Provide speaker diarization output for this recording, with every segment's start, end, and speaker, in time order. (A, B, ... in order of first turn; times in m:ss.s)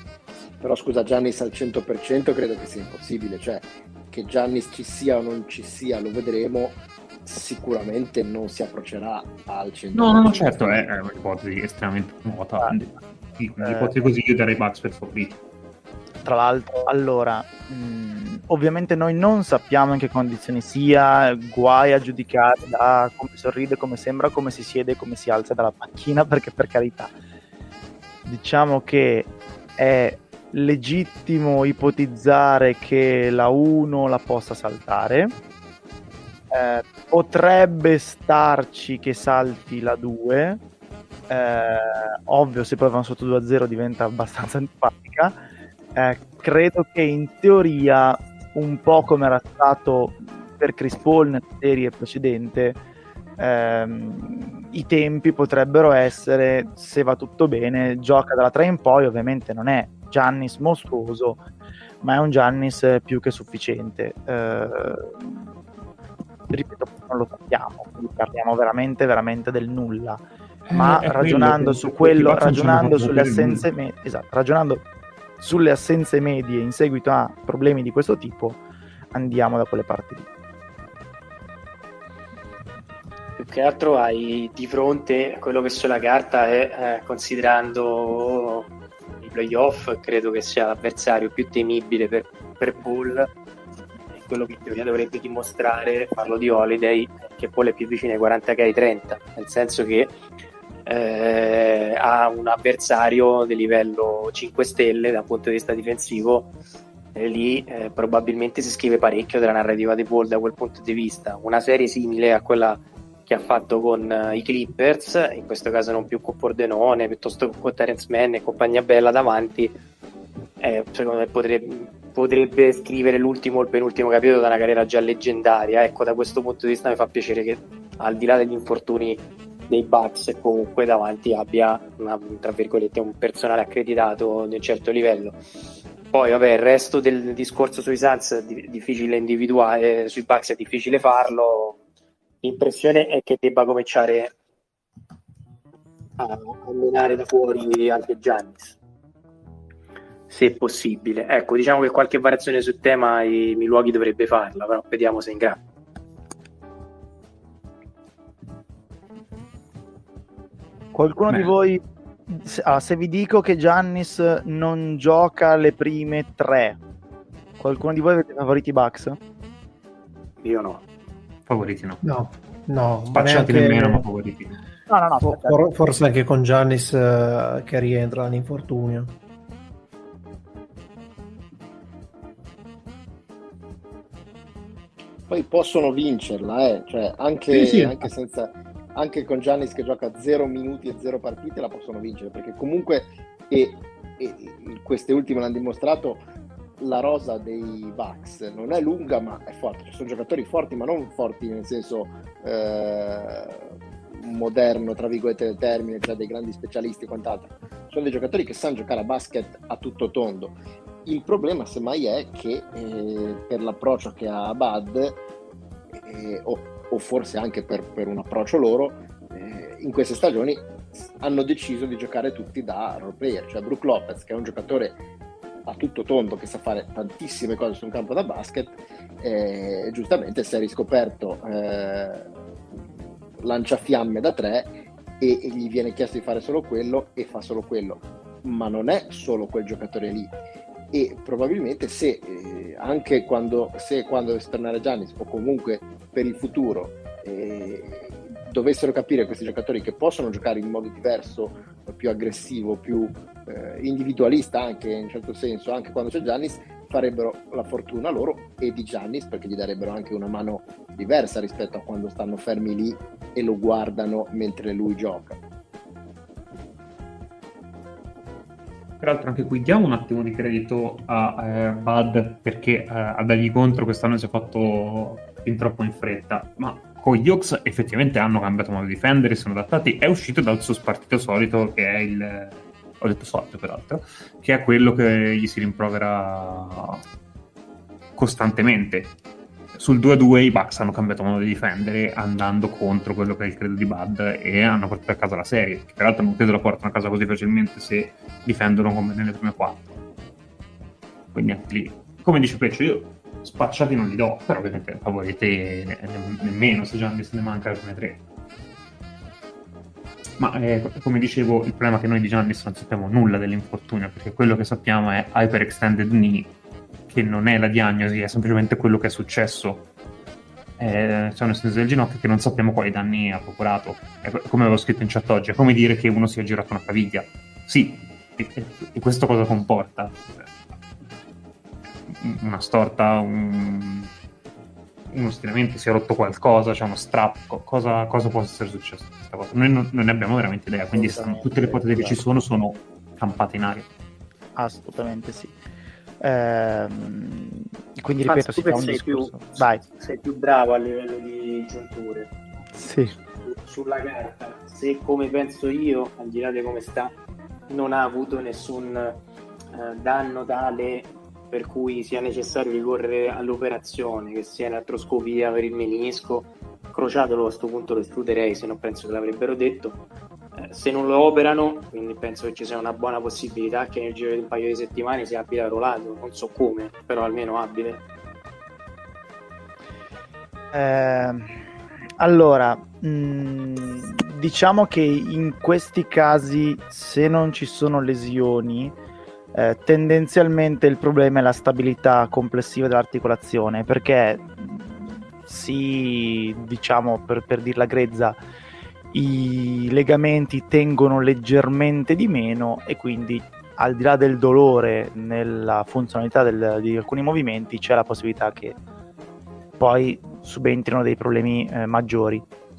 0:00.6-0:10.8 A
0:09.9-0:15.4 B
0:13.6-0:13.9 C
0:16.2-0:27.1 C
0:28.2-0:35.3 C
0:36.5-0:40.6 C
0:41.3-0:45.4 C
0:46.0-0:52.8 C
0:53.4-1:01.4 C
1:02.0-1:05.5 C
1:06.5-1:14.8 C
1:10.6-1:13.6 B
1:15.4-1:18.6 C
1:19.1-1:20.2 C
1:23.4-1:28.7 D
1:29.2-1:33.3 D
1:34.1-1:40.2 D
1:40.8-1:46.5 D
1:47.1-1:59.8 D
2:00.6-2:15.4 D
2:16.1-2:21.8 D
2:22.4-2:24.3 D
2:26.2-2:28.8 D
2:30.3-2:35.6 D
2:40.9-2:46.8 C
2:47.6-2:49.2 C
2:50.4-2:50.8 D
2:51.5-2:52.0 B
2:52.0-2:54.0 E
2:53.1-2:54.6 B
2:54.9-2:55.7 C
2:55.2-2:59.1 E
3:05.3-3:16.2 A
3:07.5-3:08.0 B
3:16.8-3:35.2 A
3:35.9-3:45.0 A
3:45.6-3:52.3 A
3:53.4-4:00.3 A
4:00.9-4:25.4 A
4:29.0-4:47.0 B
4:48.2-4:49.1 B
4:49.7-5:00.0 B
5:01.3-5:08.2 B
5:10.4-5:16.5 B
5:17.1-5:19.9 B
5:20.8-5:30.5 B
5:32.1-5:34.1 B
5:35.1-5:43.9 B
5:40.9-5:42.2 C
5:44.6-5:45.5 C
5:46.2-5:49.8 C
5:48.2-5:52.3 D
5:52.8-5:53.1 C
5:53.2-5:57.1 D
5:57.7-5:59.2 D
5:59.7-6:10.0 D
6:10.6-6:18.0 D
6:20.7-6:21.5 C
6:22.2-6:28.9 C
6:29.5-6:38.4 C
6:39.1-6:48.8 C
6:49.8-6:52.4 C